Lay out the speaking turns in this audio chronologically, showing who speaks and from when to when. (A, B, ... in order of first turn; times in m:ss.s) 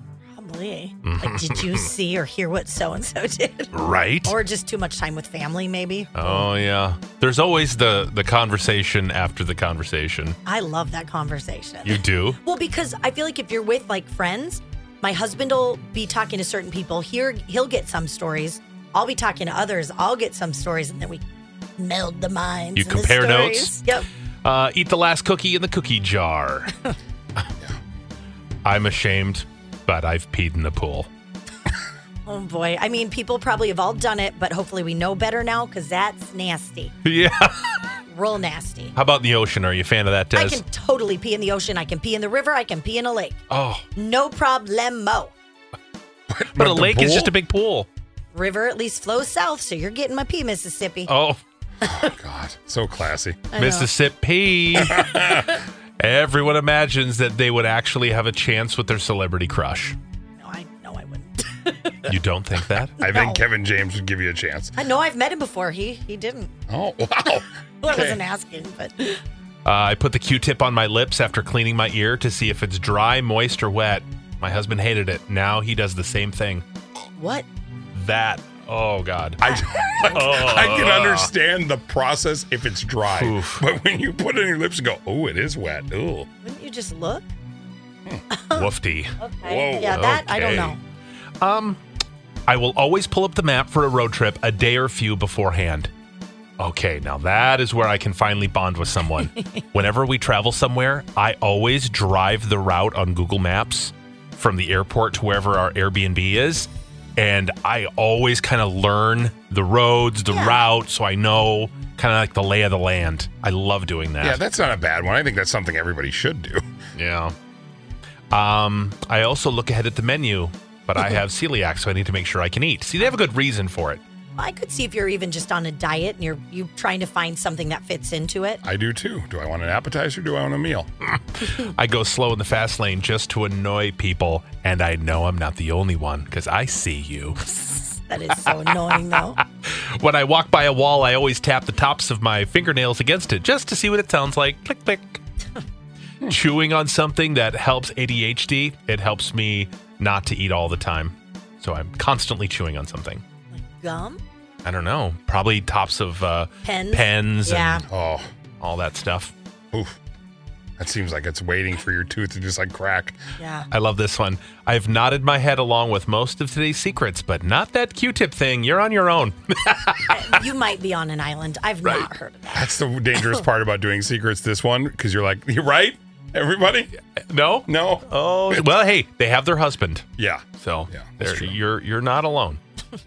0:00.3-0:06.5 A
0:01.0-0:01.9 B
0:03.7-0:04.4 B
0:06.2-0:10.4 B
0:10.5-0:21.2 A
0:11.8-0:12.4 B
0:21.8-0:24.1 A
0:22.8-0:23.9 B
0:24.4-0:26.8 B
0:28.6-0:31.1 B
0:32.3-0:36.9 A
0:37.0-0:37.9 B
0:38.1-0:38.9 A
0:39.0-0:40.6 B
0:40.3-0:43.4 A
0:43.5-0:43.8 B
0:44.0-0:45.3 A
0:46.3-0:47.3 C
0:46.5-0:47.9 B
0:48.3-0:51.1 A
0:51.1-0:51.4 B
0:51.8-0:53.5 C
0:53.5-0:53.9 A
0:53.6-1:00.0 B
0:54.8-0:55.5 C
1:00.4-1:02.1 A
1:02.1-1:03.1 B
1:03.0-1:04.8 C
1:03.0-1:03.4 A
1:04.8-1:06.5 A
1:06.7-1:08.2 C
1:07.8-1:09.2 A
1:09.6-1:16.6 B
1:17.2-1:17.5 A
1:17.9-1:19.5 B
1:19.4-1:26.3 C
1:19.5-1:19.9 A
1:20.1-1:21.3 B
1:23.1-1:23.7 B
1:26.4-1:27.3 A
1:28.3-1:30.8 A
1:28.5-1:29.2 B
1:29.4-1:30.2 C
1:29.9-1:30.8 B
1:31.4-1:31.8 B
1:32.5-1:35.9 B
1:36.6-1:54.4 B
1:50.3-1:50.6 A
1:54.2-1:56.6 C
1:57.0-1:57.3 B
1:58.3-2:04.0 B
2:04.4-2:08.6 A
2:08.6-2:10.9 C
2:11.0-2:17.5 B
2:17.6-2:19.4 A
2:18.4-2:25.2 B
2:26.2-2:33.2 B
2:33.5-2:34.2 A
2:34.6-2:37.8 B
2:36.6-2:37.8 A
2:37.9-2:38.3 C
2:38.6-2:39.3 B
2:40.8-2:43.2 C
2:43.4-2:43.7 A
2:43.7-2:50.4 B
2:50.1-2:53.3 A
2:52.5-2:56.9 C
2:57.3-3:02.6 B
2:57.7-2:58.7 C
3:00.2-3:01.6 C